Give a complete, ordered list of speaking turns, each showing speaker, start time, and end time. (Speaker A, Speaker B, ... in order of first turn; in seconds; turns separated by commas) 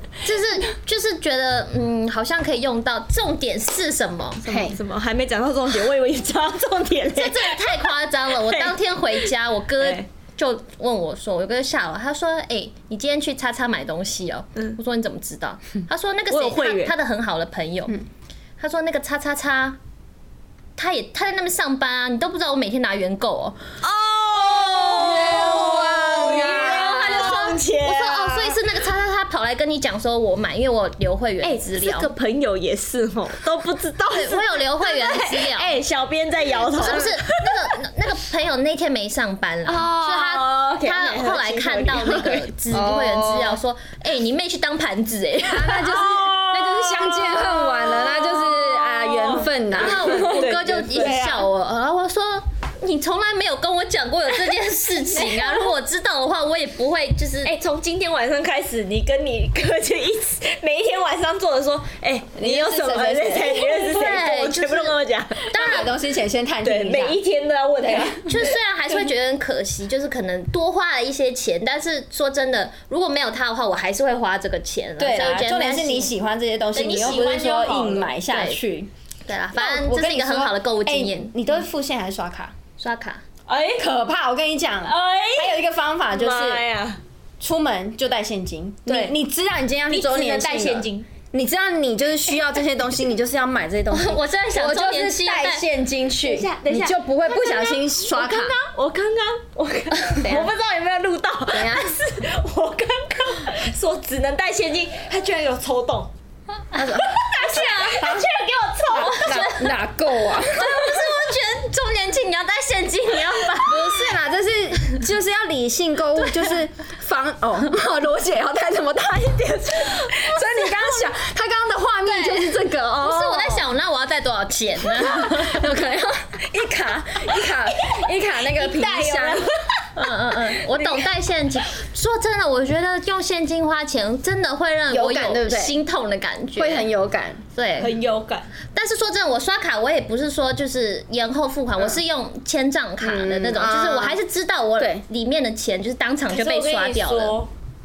Speaker A: 0.2-4.5, Speaker B: 4.5-4.8, Speaker C: 4.5-10.1, Speaker A: 7.1-18.0, Speaker C: 16.3-16.9, Speaker A: 18.6-19.8, Speaker A: 20.8-23.6, Speaker C: 23.8-28.6, Speaker B: 24.8-27.4, Speaker A: 26.2-32.1, Speaker C: 31.4-37.7, Speaker A: 34.1-35.7, Speaker A: 36.8-46.0, Speaker B: 36.8-37.1, Speaker C: 39.6-42.5, Speaker B: 42.7-43.6, Speaker B: 45.5-51.1, Speaker C: 45.8-51.5, Speaker A: 49.8-57.5, Speaker C: 57.5-65.8, Speaker B: 62.4-63.7, Speaker A: 63.6-65.0, Speaker A: 65.5-65.9, Speaker B: 65.5-67.2, Speaker C: 66.6-68.5, Speaker B: 67.8-68.2, Speaker A: 68.2-76.1, Speaker B: 75.0-78.9, Speaker C: 76.7-78.1, Speaker A: 78.3-78.6, Speaker A: 79.3-81.4, Speaker B: 79.5-82.5, Speaker A: 82.8-83.2, Speaker C: 83.5-83.9, Speaker B: 83.8-86.6, Speaker C: 84.8-85.6, Speaker C: 86.1-87.0, Speaker B: 87.4-98.6, Speaker C: 88.9-89.1, Speaker C: 89.9-91.0, Speaker A: 93.9-95.6, Speaker C: 96.2-106.1, Speaker A: 100.1-100.5, Speaker B: 101.5-101.9, Speaker B: 106.7-108.2, Speaker C: 107.0-109.5, Speaker A: 107.0-108.2, Speaker A: 108.9-109.8, Speaker B: 108.9-110.8, Speaker A: 110.3-114.1, Speaker B: 113.7-123.7, Speaker A: 122.1-125.6, Speaker B: 125.0-129.4, Speaker C: 127.3-129.9, Speaker A: 129.9-136.9, Speaker C: 130.7-131.0, Speaker B: 134.9-135.8, Speaker B: 136.6-137.4, Speaker A: 137.5-137.9, Speaker C: 137.8-138.5, Speaker A: 138.7-147.4, Speaker B: 143.0-144.2, Speaker B: 144.8-145.0, Speaker C: 146.3-147.5